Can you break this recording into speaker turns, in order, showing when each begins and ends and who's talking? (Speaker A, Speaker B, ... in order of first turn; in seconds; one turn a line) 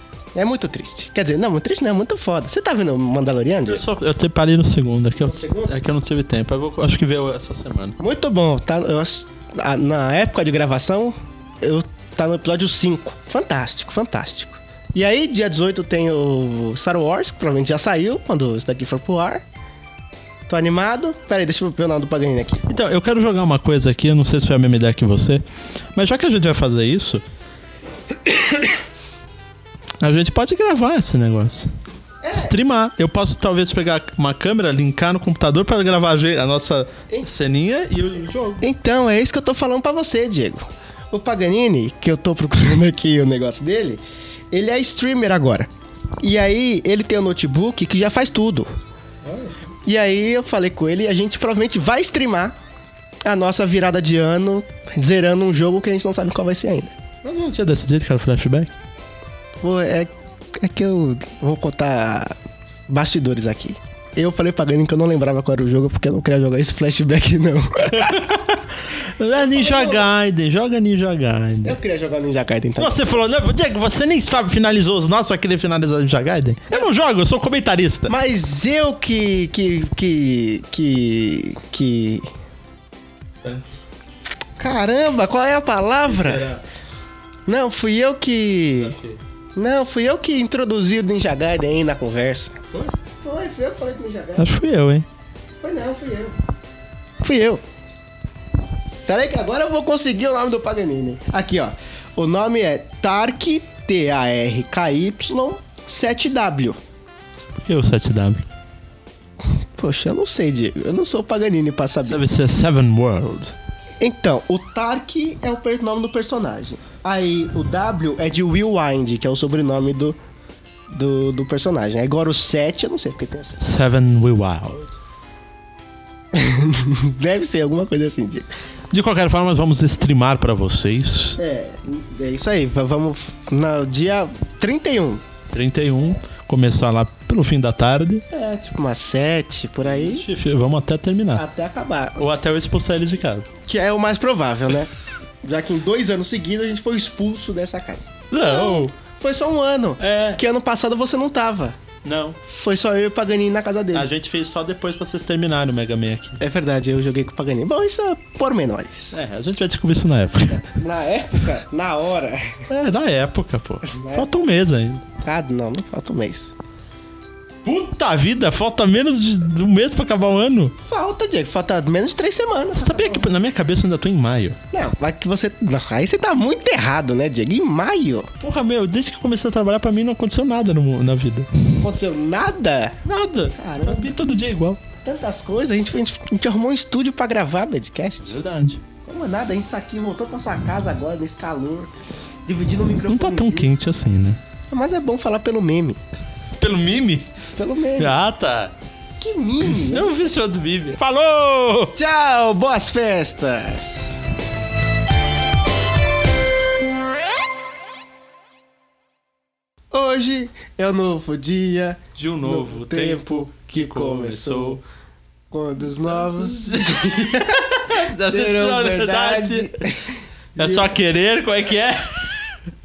Speaker A: 0.3-3.9
Speaker B: 3.7-8.0
Speaker A: 5.2-5.7
Speaker A: 8.0-19.4
Speaker A: 20.5-22.7
Speaker B: 22.7-25.4
Speaker B: 25.9-27.2
Speaker B: 30.0-31.7
Speaker A: 32.2-32.5
Speaker B: 32.3-38.7
Speaker A: 38.6-45.7
Speaker A: 46.2-48.7
Speaker B: 49.2-49.5
Speaker A: 49.8-52.5
Speaker A: 53.2-56.9
Speaker B: 57.2-58.7
Speaker A: 59.6-62.3
Speaker A: 62.9-68.2
Speaker B: 68.0-71.8
Speaker A: 69.3-70.1
Speaker A: 71.6-73.0
Speaker B: 72.8-78.1
Speaker A: 78.1-82.2
Speaker A: 84.6-86.5
Speaker B: 86.0-86.6
Speaker A: 87.5-89.0
Speaker B: 88.7-89.2
Speaker A: 89.5-92.5
Speaker A: 93.2-94.5
Speaker B: 94.4-95.0
Speaker A: 95.6-96.4
Speaker A: 97.2-97.6
Speaker A: 99.0-106.8
Speaker B: 107.6-108.4
Speaker A: 109.8-112.2
Speaker B: 112.0-113.5
Speaker A: 114.0-120.2
Speaker A: 120.9-123.6
Speaker B: 123.6-124.9
Speaker A: 126.3-128.5
Speaker B: 128.9-131.4
Speaker A: 131.4-135.2
Speaker B: 135.5-138.2
Speaker A: 138.3-140.2
Speaker B: 139.8-141.4
Speaker A: 141.3-142.3
Speaker B: 142.2-143.5
Speaker A: 143.7-144.9
Speaker A: 145.4-151.8
Speaker B: 148.3-148.9
Speaker B: 150.0-150.4
Speaker B: 152.0-152.4
Speaker A: 152.4-154.1
Speaker B: 153.9-156.4
Speaker A: 156.4-159.2
Speaker B: 159.1-160.6
Speaker A: 160.5-162.6
Speaker B: 162.7-165.1
Speaker A: 163.8-164.5
Speaker A: 165.2-166.5
Speaker B: 167.6-170.7
Speaker A: 170.8-173.3
Speaker B: 172.7-174.6
Speaker A: 174.7-178.3
Speaker B: 178.4-181.5
Speaker A: 181.8-183.0
Speaker B: 183.0-184.8
Speaker A: 183.6-184.1
Speaker A: 185.0-188.4
Speaker B: 188.2-188.8
Speaker A: 189.0-191.9
Speaker A: 192.4-193.7
Speaker B: 193.1-194.4
Speaker A: 194.7-196.0
Speaker B: 196.6-197.3
Speaker A: 197.6-198.1
Speaker B: 197.9-198.7
Speaker A: 199.2-200.1
Speaker B: 199.6-201.9
Speaker A: 201.9-204.2
Speaker A: 209.9-214.8
Speaker B: 212.2-214.8
Speaker A: 215.5-220.9
Speaker B: 215.8-217.2
Speaker B: 217.9-219.7
Speaker B: 220.6-222.6